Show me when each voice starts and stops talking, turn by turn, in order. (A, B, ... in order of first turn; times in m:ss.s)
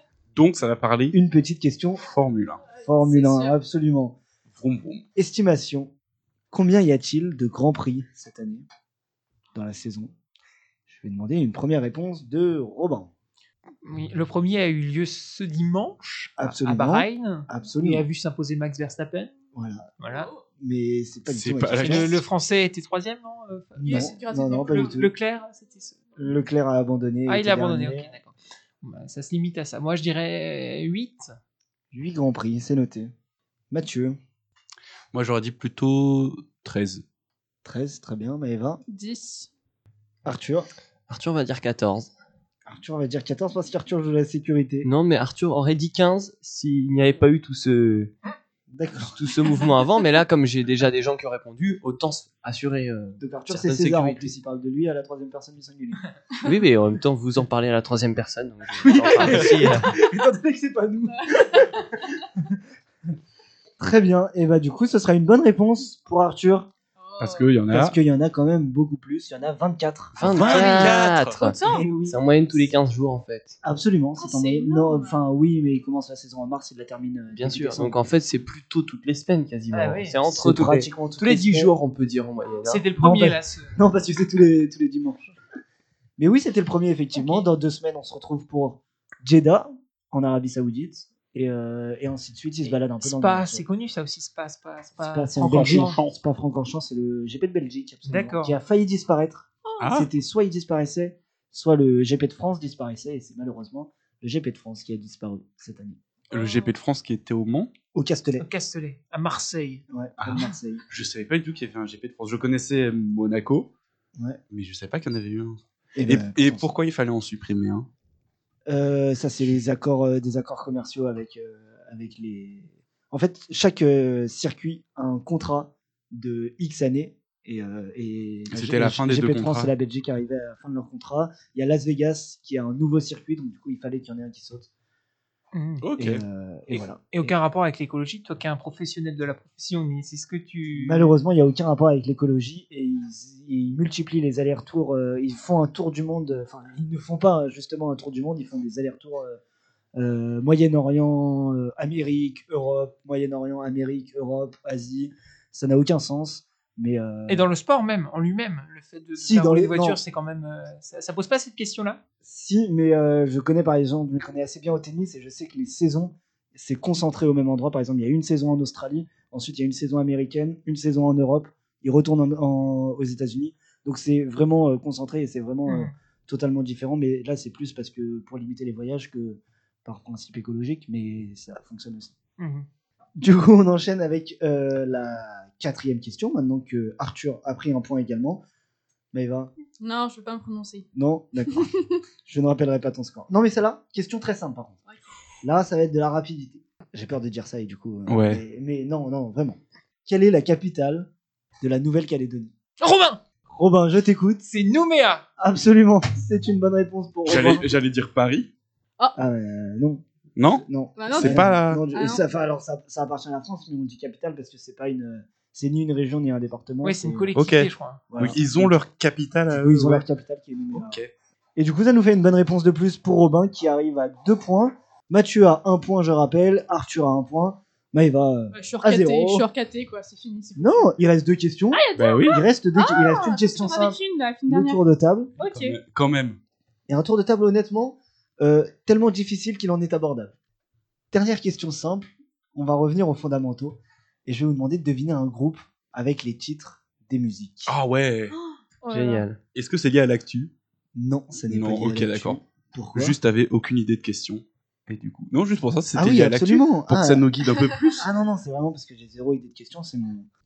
0:00.3-0:01.2 A
0:01.1-0:02.0 B
0:02.0-0:02.6 A
0:02.8-0:04.2 B
0:02.8-0:03.5 C
0:04.5-0:05.0 A
0:05.1-0:05.9 B
0:06.5-0:08.6 B
0:09.5-0:10.1 B
0:10.9-0:13.1 B
0:13.8-0:19.3 D
0:16.4-0:18.0 B
0:19.5-0:19.8 B
0:20.0-0:20.3 D
0:20.6-0:22.2 B
0:21.3-0:22.2 A
0:21.8-0:26.4 D
0:23.8-0:25.1 B
0:23.8-0:25.0 C
0:26.2-0:28.1 B
0:27.2-0:31.3 D
0:31.9-0:33.1 B
0:33.7-0:34.2 B
0:35.1-0:37.0 A
0:37.6-0:38.8 B
0:38.9-0:39.5 C
0:40.2-0:40.7 B
0:41.1-0:42.1 E
0:42.6-0:44.9 B
0:44.8-0:48.1 E
0:48.7-0:49.1 B
0:49.0-0:54.3 E
0:53.2-0:56.0 B
0:56.4-0:59.9 E
0:58.8-1:02.6 B
0:59.0-0:59.7 D
1:03.8-1:06.7 B
1:07.0-1:07.5 C
1:07.2-1:08.0 A
1:07.7-1:10.9 B
1:10.2-1:11.5 A
1:10.2-1:13.6 E
1:11.4-1:11.9 C
1:11.6-1:12.2 B
1:13.6-1:18.0 B
1:14.2-1:15.2 C
1:17.3-1:22.8 E
1:19.7-1:20.2 D
1:20.3-1:21.7 B
1:22.6-1:23.8 D
1:23.0-1:25.3 B
1:26.2-1:33.6 B
1:27.1-1:27.4 D
1:33.0-1:36.0 D
1:35.0-1:46.0 B
1:35.4-1:36.2 A
1:38.0-1:38.6 D
1:39.8-1:40.1 A
1:46.3-1:47.7 A
1:46.3-1:46.7 C
1:47.9-1:48.4 B
1:48.4-1:49.8 D
1:49.9-1:50.8 B
1:50.2-1:53.7 A
1:54.5-1:57.9 A
1:55.9-1:56.7 B
1:58.7-2:14.7 B
2:08.5-2:09.7 A
2:15.5-2:15.8 D
2:15.8-2:16.2 A
2:16.0-2:17.3 B
2:16.7-2:21.1 D
2:20.8-2:29.4 B
2:30.0-2:37.5 B
2:37.3-2:42.0 D
2:39.2-2:40.0 B
2:42.2-3:02.1 B
2:55.6-2:55.9 D
3:02.4-3:02.6 D
3:03.2-3:08.4 B
3:09.1-3:09.5 B
3:09.8-3:10.9 C
3:10.9-3:11.7 B
3:12.2-3:14.8 B
3:15.4-3:21.1 B
3:18.1-3:18.4 A
3:21.6-3:22.5 B
3:22.8-3:23.2 D
3:23.5-3:24.4 B
3:24.5-3:25.2 D
3:25.4-3:27.6 B
3:27.2-3:28.5 A
3:29.2-3:37.3 B
3:30.4-3:31.8 A
3:31.0-3:32.2 C
3:36.8-3:38.0 D
3:37.3-3:40.0 A
3:38.1-3:38.7 B
3:39.5-3:41.0 B
3:40.7-3:41.1 A
3:41.6-3:49.5 B
3:48.5-3:50.9 C
3:50.6-3:55.3 B
3:51.7-3:54.8 C
3:52.0-3:52.4 A
3:55.4-3:55.7 C
3:55.4-3:56.4 A
3:56.9-4:00.4 B
4:01.1-4:07.7 B
4:07.7-4:08.3 A
4:08.4-4:09.2 C
4:08.9-4:09.4 E
4:09.5-4:10.5 A
4:10.9-4:13.2 B
4:11.5-4:12.4 A
4:12.9-4:18.0 A
4:15.9-4:17.3 B
4:17.9-4:20.3 B